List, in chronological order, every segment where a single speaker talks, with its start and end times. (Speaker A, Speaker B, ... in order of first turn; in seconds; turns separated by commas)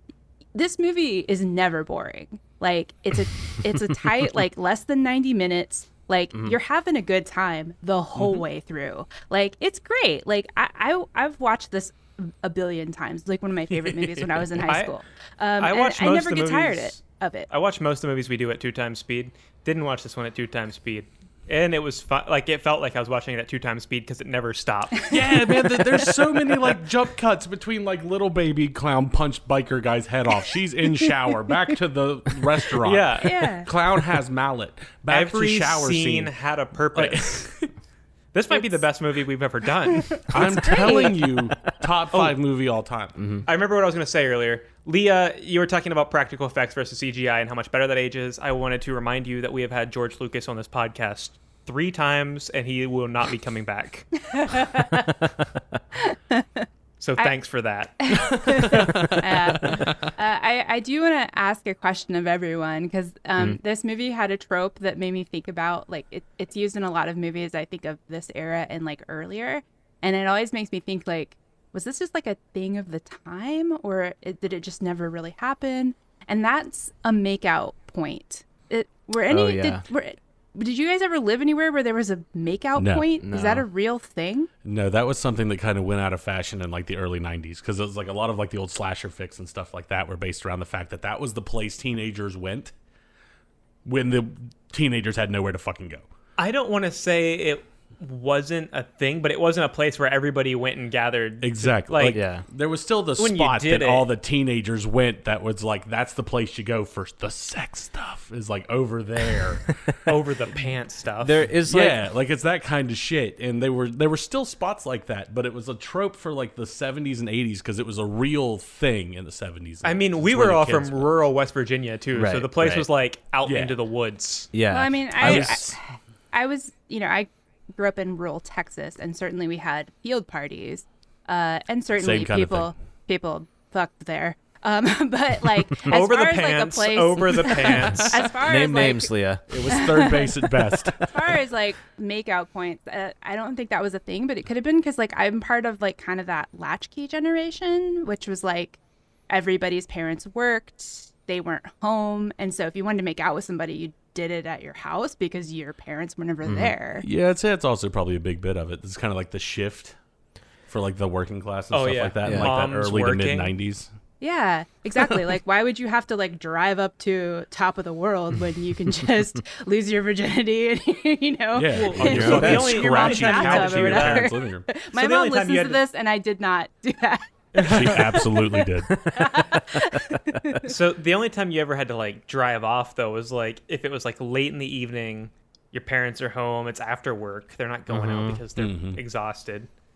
Speaker A: 0.5-17.5, Speaker B: 6.3-6.6, Speaker C: 14.6-14.9, Speaker C: 15.6-17.0, Speaker C: 17.5-25.4, Speaker D: 25.1-36.3, Speaker C: 32.8-33.5, Speaker A: 33.2-33.7, Speaker C: 35.1-37.5, Speaker D: 36.9-37.7, Speaker C: 38.3-41.0, Speaker D: 40.3-43.2, Speaker A: 40.3-41.4, Speaker B: 43.2-43.5, Speaker C: 43.5-54.2, Speaker A: 54.4-55.1, Speaker A: 56.1-56.6, Speaker C: 57.0-58.8, Speaker A: 58.0-84.5, Speaker D: 58.6-59.8, Speaker B: 79.3-79.8, Speaker D: 82.8-83.1, Speaker B: 83.2-83.7, Speaker D: 84.6-92.7, Speaker D: 93.8-96.1, Speaker C: 96.4-102.2, Speaker D: 101.4-109.7, Speaker B: 102.1-102.4, Speaker C: 103.2-104.1, Speaker C: 110.1-111.5, Speaker B: 111.2-112.0, Speaker D: 111.7-121.1, Speaker C: 119.8-124.5, Speaker B: 122.2-122.9, Speaker D: 123.5-123.8, Speaker B: 124.5-125.5, Speaker A: 124.7-125.8, Speaker D: 125.2-125.8, Speaker A: 126.3-139.1, Speaker D: 132.0-132.7, Speaker C: 135.8-138.3, Speaker D: 137.8-138.1, Speaker B: 138.4-139.4, Speaker D: 139.5-141.4, Speaker A: 139.7-157.1, Speaker B: 156.4-156.8, Speaker D: 157.0-160.0, Speaker D: 160.7-163.9, Speaker C: 161.7-163.5, Speaker B: 162.2-162.5, Speaker A: 164.2-180.7, Speaker D: 171.5-174.7, Speaker C: 171.7-174.3, Speaker B: 172.0-172.6, Speaker C: 174.9-175.8, Speaker C: 177.6-178.0, Speaker D: 177.6-179.0, Speaker B: 179.1-179.6, Speaker C: 180.6-189.7, Speaker B: 187.9-188.4, Speaker D: 188.6-189.0